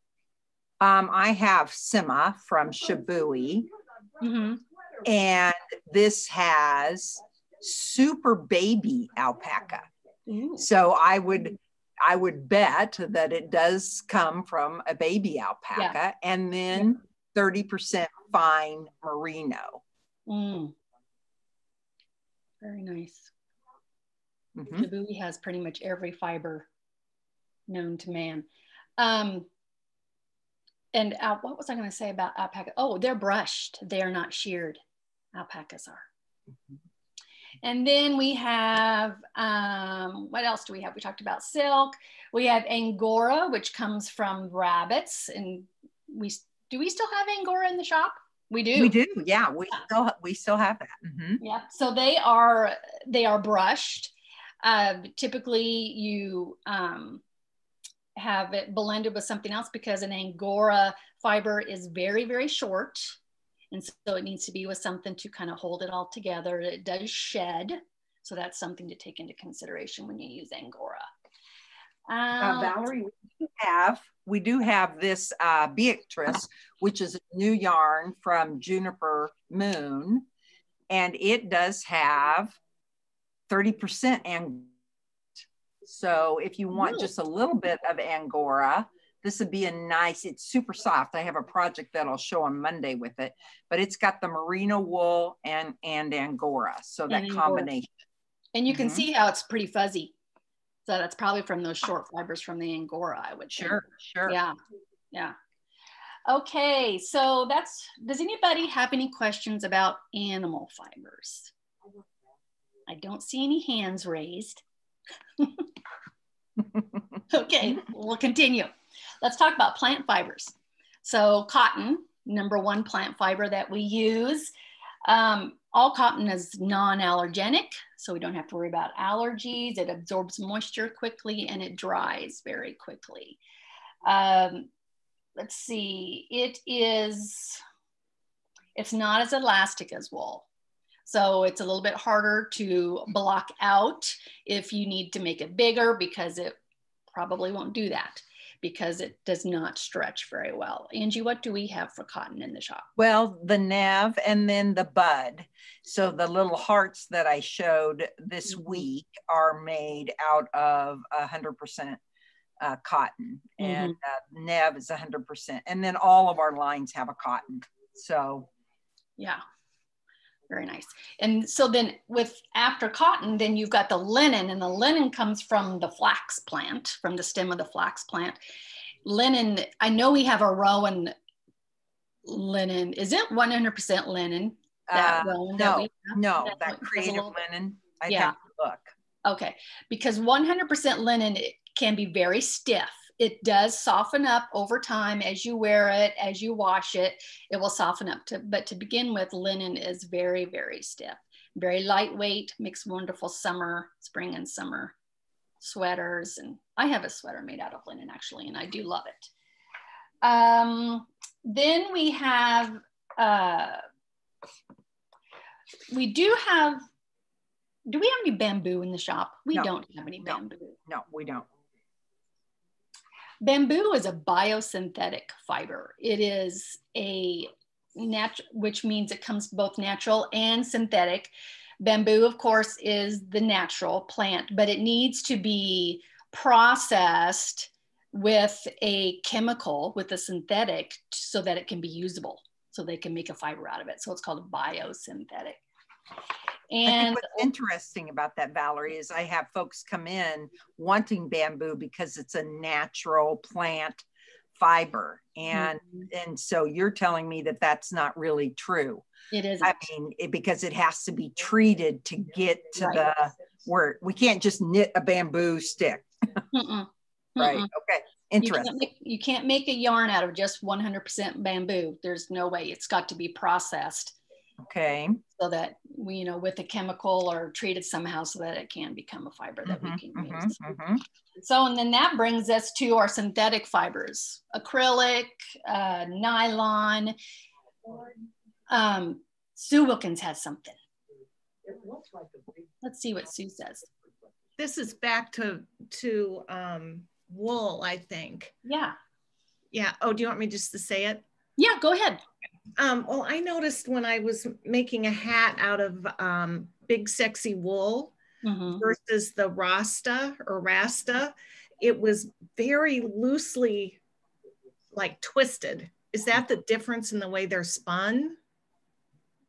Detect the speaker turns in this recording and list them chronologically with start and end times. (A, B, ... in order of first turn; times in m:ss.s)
0:00.8-0:03.7 A
0:04.2-0:04.6 B
0:05.0-0:09.9 A
0:10.3-0:10.6 B
0:10.6-0:19.8 A
0:20.3-0:20.7 B
0:22.6-0:23.3 B
0:24.6-0:24.9 A
0:24.7-0:26.7 B
0:27.7-0:28.4 B
0:29.0-0:29.5 B
0:30.9-0:34.8 B
0:35.3-0:36.0 B
0:37.6-0:48.9 B
0:48.7-0:51.4 A
0:51.4-0:57.2 B
0:58.2-1:03.2 B
1:03.7-1:11.0 B
1:12.1-1:12.8 B
1:12.4-1:20.2 A
1:20.9-1:22.5 A
1:23.5-1:24.7 A
1:25.8-1:37.9 A
1:26.8-1:27.0 B
1:37.1-1:37.7 B
1:38.5-1:40.1 B
1:38.7-1:39.0 A
1:40.8-1:44.5 B
1:43.5-1:44.4 A
1:46.3-1:51.5 B
1:52.9-1:54.6 B
1:55.4-1:55.6 B
1:57.3-1:58.7 B
1:59.2-2:04.5 B
2:05.0-2:13.4 B
2:14.0-2:14.7 B
2:15.4-2:17.6 B
2:18.7-2:20.4 B
2:21.0-2:26.6 B
2:27.1-2:32.8 B
2:33.0-2:42.0 A
2:42.6-2:48.5 A
2:43.6-2:43.9 B
2:50.5-2:58.4 B
2:59.0-3:01.1 B
3:02.2-3:07.3 B
3:04.9-3:08.9 A
3:08.1-3:08.3 B
3:09.2-3:24.9 B
3:25.6-3:29.3 B
3:30.2-3:33.8 B
3:35.9-3:36.8 B
3:37.9-3:40.7 B
3:39.5-3:41.5 A
3:43.4-4:05.6 B
4:06.7-4:07.3 B
4:06.8-4:14.0 A
4:14.6-4:19.0 A
4:15.5-4:16.0 B
4:19.3-4:19.8 B
4:19.6-4:26.4 A
4:26.5-4:27.7 B
4:27.4-4:28.8 A
4:28.4-4:34.2 B
4:34.6-4:35.2 A
4:35.4-4:40.6 B
4:39.6-4:41.0 A
4:41.4-4:47.2 B
4:48.7-4:50.8 B
4:52.8-4:53.9 B
4:54.6-4:58.5 C
4:58.6-4:59.0 B
4:59.7-5:01.2 C
5:01.6-5:02.2 B
5:02.8-5:08.1 C
5:08.4-5:08.8 B
5:08.7-5:14.0 C
5:14.9-5:18.4 C